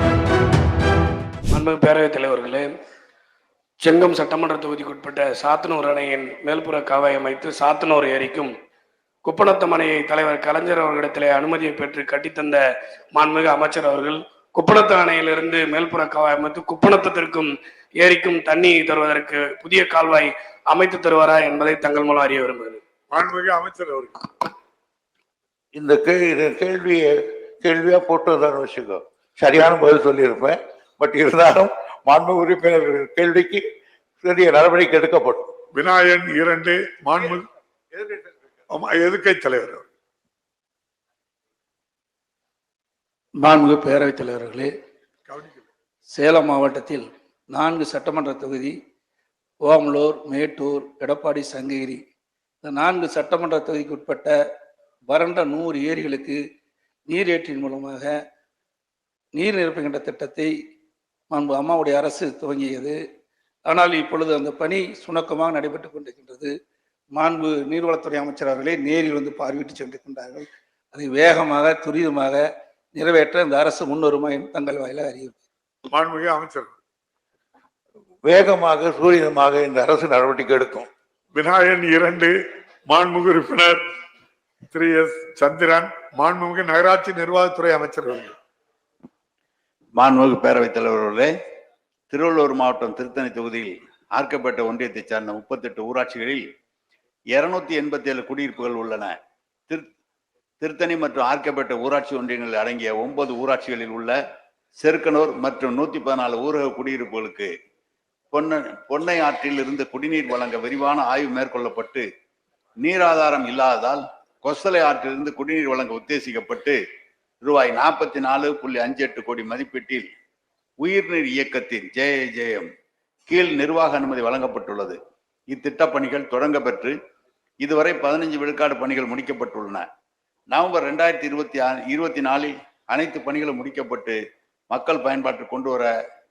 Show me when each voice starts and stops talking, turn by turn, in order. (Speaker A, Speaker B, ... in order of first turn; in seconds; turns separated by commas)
Speaker A: 1.5-2.7, Speaker A: 3.8-8.5, Speaker A: 9.2-12.6, Speaker A: 13.1-22.8, Speaker B: 23.1-24.2, Speaker C: 25.7-33.6, Speaker C: 34.2-35.5, Speaker B: 35.7-37.5, Speaker B: 38.7-39.9, Speaker D: 43.4-44.7, Speaker D: 46.1-48.8, Speaker D: 49.6-52.0, Speaker D: 52.6-54.3, Speaker D: 55.1-56.4, Speaker D: 57.1-58.1, Speaker D: 59.3-60.5, Speaker D: 61.3-63.0, Speaker D: 63.7-66.5, Speaker D: 67.1-72.4, Speaker D: 73.0-75.4, Speaker B: 75.9-76.7, Speaker C: 78.2-80.9, Speaker B: 81.3-82.4, Speaker B: 82.9-83.8, Speaker B: 84.7-88.3, Speaker E: 90.0-91.3, Speaker E: 92.1-96.4, Speaker E: 97.3-99.2, Speaker E: 100.6-104.2, Speaker E: 104.8-107.5, Speaker E: 108.3-112.0, Speaker E: 112.8-116.8, Speaker E: 117.4-120.1, Speaker E: 120.8-122.7, Speaker E: 123.3-125.0, Speaker E: 125.5-126.9, Speaker E: 127.6-129.8, Speaker E: 130.5-134.2, Speaker E: 134.7-135.9